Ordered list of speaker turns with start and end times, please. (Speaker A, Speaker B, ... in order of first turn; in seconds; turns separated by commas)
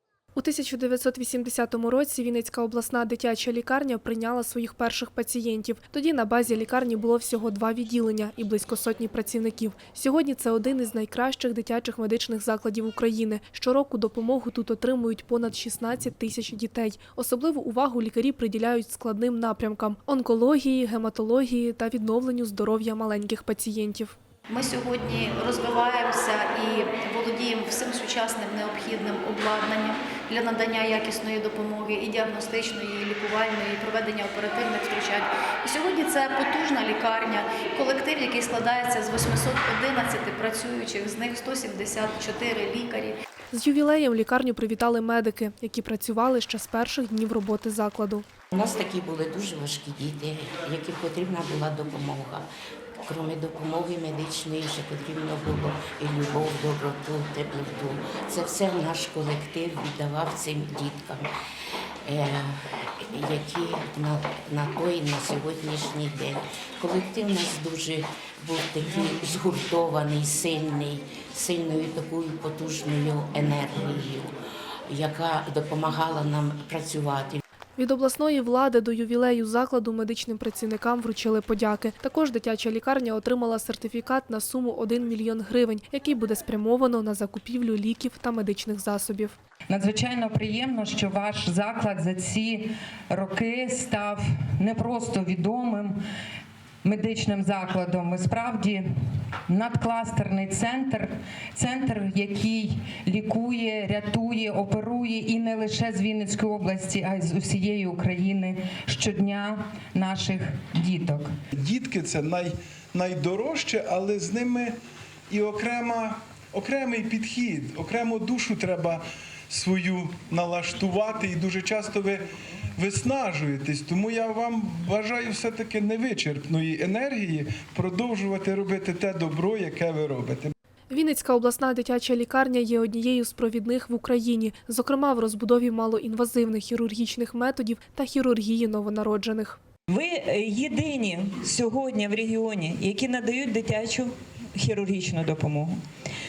Speaker A: 0.3-24.1, Speaker B: 24.5-43.2, Speaker A: 43.5-48.2, Speaker C: 48.5-52.5, Speaker C: 53.0-61.3, Speaker C: 62.1-74.3, Speaker C: 74.9-77.4, Speaker A: 77.8-89.3, Speaker D: 89.7-96.0, Speaker D: 96.8-98.8, Speaker D: 99.5-111.3, Speaker E: 111.5-114.8, Speaker E: 115.3-122.2, Speaker E: 122.8-130.5, Speaker A: 130.9-139.6, Speaker F: 139.9-145.8